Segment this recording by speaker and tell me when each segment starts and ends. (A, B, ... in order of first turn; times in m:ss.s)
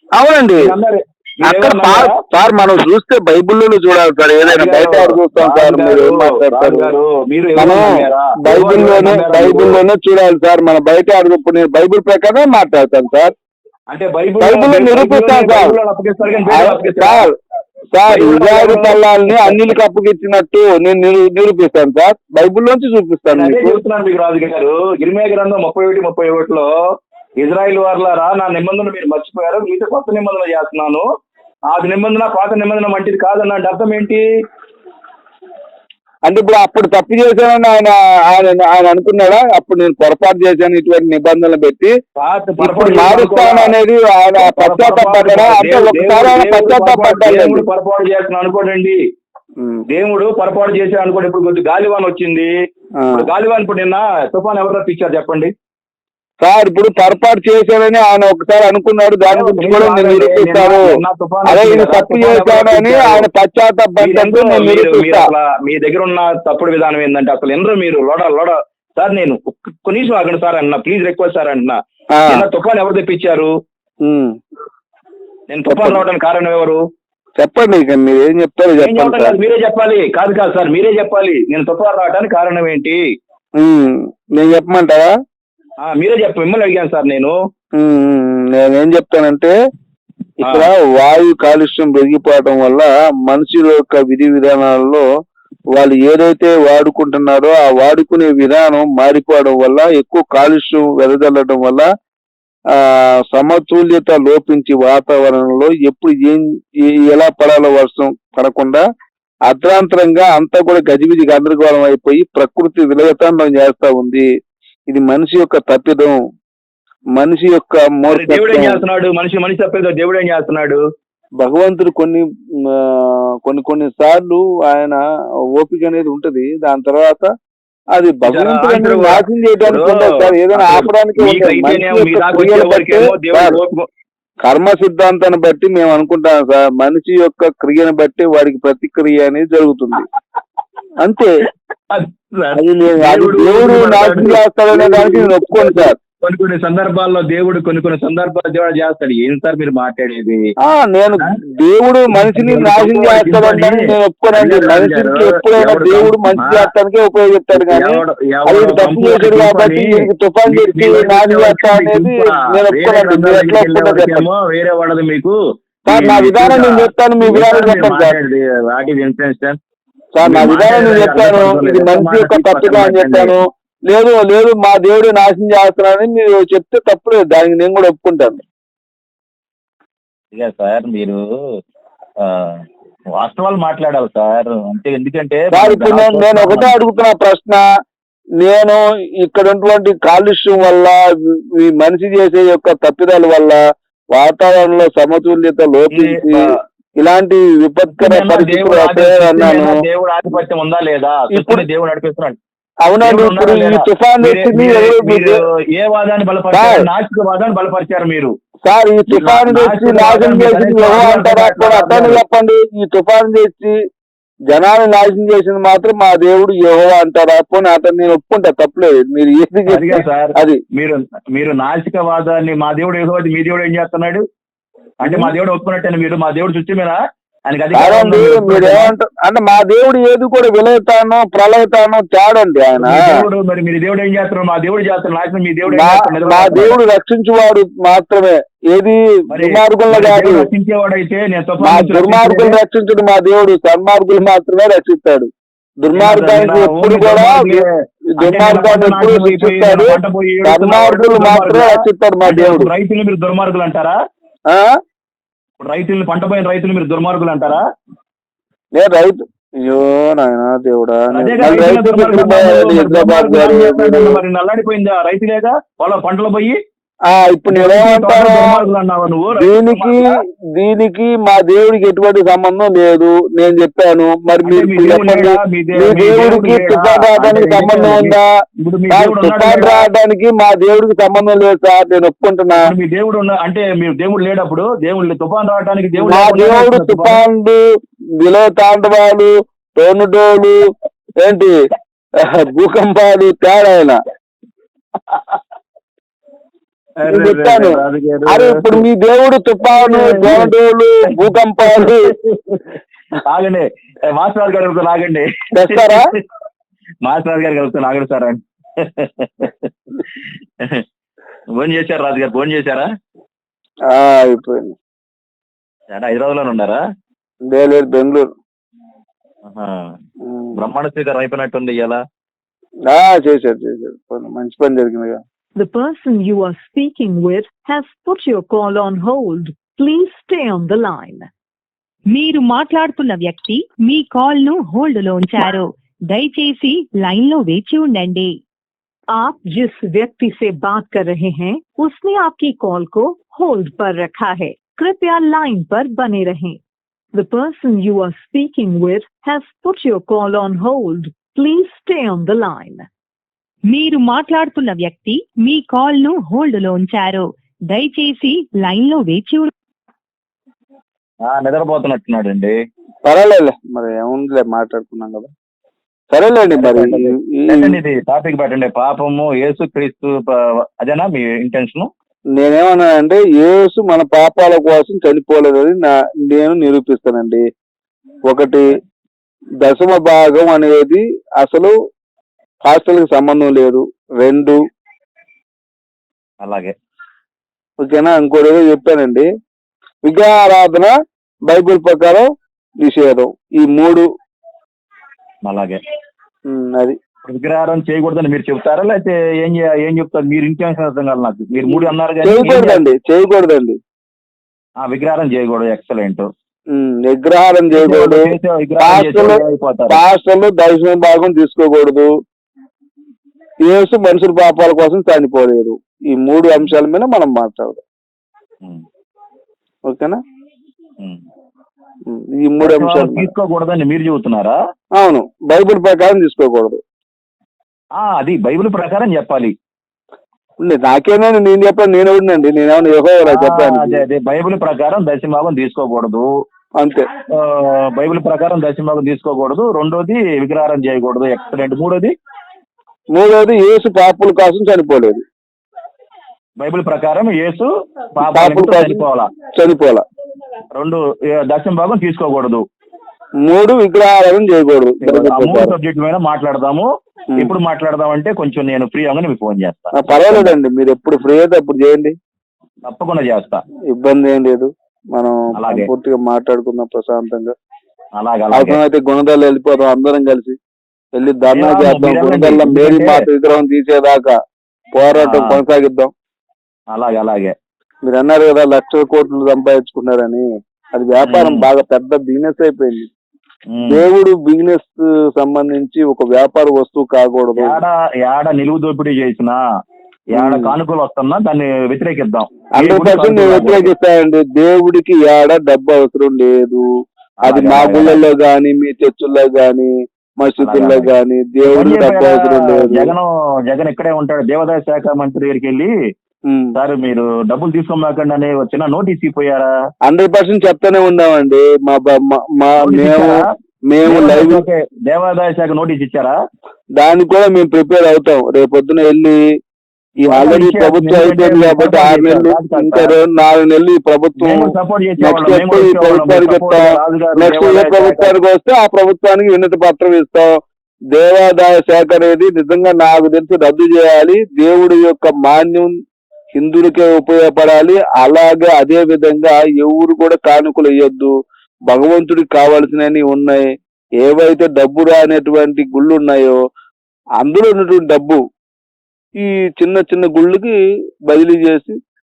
0:00.2-0:00.7 A
0:00.6-0:02.2 B
0:01.4-0:06.9 A
0:04.4-0:09.8 B
0:07.6-0:13.3 A
0:13.9-0:17.3 B
0:14.4-0:15.7 A
0:16.5-0:17.3 A
0:17.9-0:23.8 A
0:18.1-0:19.8 B
0:23.3-0:26.7 B
0:27.4-0:31.0 B
0:31.7-0:34.2 B
0:36.3-0:41.9 A
0:42.2-0:43.8 B
0:42.6-0:47.6 A
0:44.4-0:49.0 B
0:49.9-0:52.5 B
0:53.0-0:53.3 A
0:53.1-0:55.5 B
0:56.4-1:00.9 A
0:59.3-1:03.3 B
1:01.5-1:05.3 A
1:04.0-1:13.5 B
1:12.1-1:12.4 A
1:14.0-1:14.4 A
1:15.5-1:16.8 B
1:15.7-1:16.0 A
1:17.4-1:19.4 A
1:18.8-1:23.0 B
1:23.6-1:25.1 A
1:25.8-1:27.4 B
1:27.8-1:29.5 A
1:30.4-1:30.7 B
1:30.4-1:35.0 A
1:35.7-1:41.8 A
1:42.7-1:48.8 A
1:49.5-1:54.3 A
1:54.9-1:56.2 A
1:57.2-1:58.8 A
1:58.1-2:00.8 B
2:01.4-2:05.0 A
2:05.6-2:07.3 A
2:08.0-2:13.6 A
2:08.3-2:13.9 B
2:14.4-2:20.1 A
2:21.0-2:21.3 A
2:21.9-2:30.4 B
2:22.6-2:26.0 A
2:30.6-2:44.2 A
2:32.1-2:33.8 B
2:34.4-2:36.7 B
2:37.5-2:49.6 B
2:45.9-2:48.2 A
2:50.2-2:58.4 A
2:50.2-2:53.4 B
3:00.3-3:01.2 B
3:02.2-3:02.6 B
3:03.2-3:06.7 B
3:05.5-3:07.6 A
3:08.4-3:11.0 A
3:11.6-3:13.6 A
3:14.1-3:19.8 A
3:15.9-3:16.6 B
3:18.0-3:22.4 B
3:21.3-3:21.6 A
3:22.8-3:25.4 A
3:23.0-3:28.3 B
3:26.5-3:26.9 A
3:28.7-3:33.8 A
3:29.1-3:32.2 B
3:34.5-3:40.6 A
3:39.7-3:44.2 B
3:45.0-3:45.3 A
3:45.0-3:47.0 B
3:47.5-3:48.9 B
3:47.7-3:53.1 A
3:52.8-3:56.8 B
3:55.7-4:00.4 A
3:59.3-4:02.6 B
4:01.6-4:05.3 A
4:05.8-4:07.6 A
4:05.9-4:14.0 B
4:08.2-4:12.7 A
4:15.6-4:17.6 B
4:18.8-4:24.2 A
4:21.1-4:26.6 B
4:27.1-4:28.6 A
4:27.5-4:30.1 B
4:29.4-4:38.2 A
4:34.4-4:39.9 B
4:38.9-4:42.6 A
4:42.5-4:47.2 B
4:46.0-4:47.6 A
4:48.2-4:50.6 A
4:51.2-4:51.5 A
4:52.2-4:54.0 A
4:55.1-4:55.4 B
4:57.0-4:58.8 B
4:57.1-5:02.1 A
4:59.7-5:00.5 B
5:01.6-5:02.6 B
5:03.2-5:06.2 B
5:05.5-5:06.1 A
5:07.0-5:10.8 B
5:11.6-5:12.9 B
5:13.9-5:14.8 A
5:15.9-5:16.8 B
5:17.5-5:18.3 A
5:19.4-5:19.9 B
5:20.2-5:20.6 A
5:20.6-5:22.0 B
5:22.9-5:25.2 A
5:25.6-5:31.3 C
5:32.1-5:38.4 D
5:39.1-5:46.6 C
5:47.1-5:52.9 C
5:53.7-5:59.5 D
6:01.2-6:02.6 B
6:03.0-6:05.3 A
6:06.1-6:07.8 A
6:06.6-6:11.9 B
6:12.4-6:17.4 A
6:18.3-6:18.8 A
6:19.6-6:21.7 A
6:22.6-6:24.6 A
6:26.4-6:26.7 B
6:27.8-6:29.3 A
6:30.0-6:30.9 A
6:31.5-6:32.3 A
6:32.8-6:34.1 A
6:35.4-6:35.8 B
6:36.5-6:37.0 A
6:37.2-6:42.8 B
6:41.7-6:43.8 A
6:44.8-6:46.3 B
6:46.7-6:52.1 A
6:47.7-6:50.0 B
6:53.6-6:57.8 A
6:59.9-7:00.2 A
7:02.1-7:03.3 A
7:02.6-7:04.6 B
7:05.0-7:06.8 A
7:08.0-7:09.5 B
7:10.6-7:14.0 A
7:13.2-7:16.3 B
7:16.8-7:17.1 A
7:17.3-7:22.1 B
7:23.1-7:25.2 A
7:26.6-7:29.3 B
7:28.3-7:30.0 A
7:30.8-7:32.6 B
7:33.4-7:35.7 A
7:35.0-7:40.6 B
7:40.0-7:42.2 A
7:42.8-7:43.6 B
7:43.9-7:47.5 A
7:45.6-7:45.9 B
7:48.2-7:48.8 B
7:48.5-7:50.6 A
7:51.2-7:54.3 A
7:51.5-7:53.2 B
7:55.0-7:56.1 A
7:55.1-7:55.6 B
7:56.9-7:57.5 B
7:58.0-8:03.1 A
8:01.2-8:01.7 B
8:03.7-8:04.0 B
8:03.9-8:07.8 A
8:07.6-8:09.6 B
8:10.3-8:13.9 B
8:10.4-8:10.7 A
8:12.8-8:16.9 A
8:17.5-8:18.2 B
8:17.5-8:23.1 A
8:20.6-8:21.1 B
8:21.6-8:25.9 B
8:26.5-8:26.8 A
8:26.8-8:29.7 B
8:30.1-8:34.6 A
8:32.8-8:33.5 B
8:34.0-8:36.4 B
8:37.0-8:39.4 A
8:40.2-8:50.5 A
8:40.3-8:43.2 B
8:44.4-8:48.4 B
8:51.1-8:55.9 A
8:56.6-9:01.3 A
9:01.9-9:03.6 A
9:04.2-9:06.6 A
9:07.4-9:08.4 A
9:09.4-9:10.7 A
9:11.3-9:12.0 A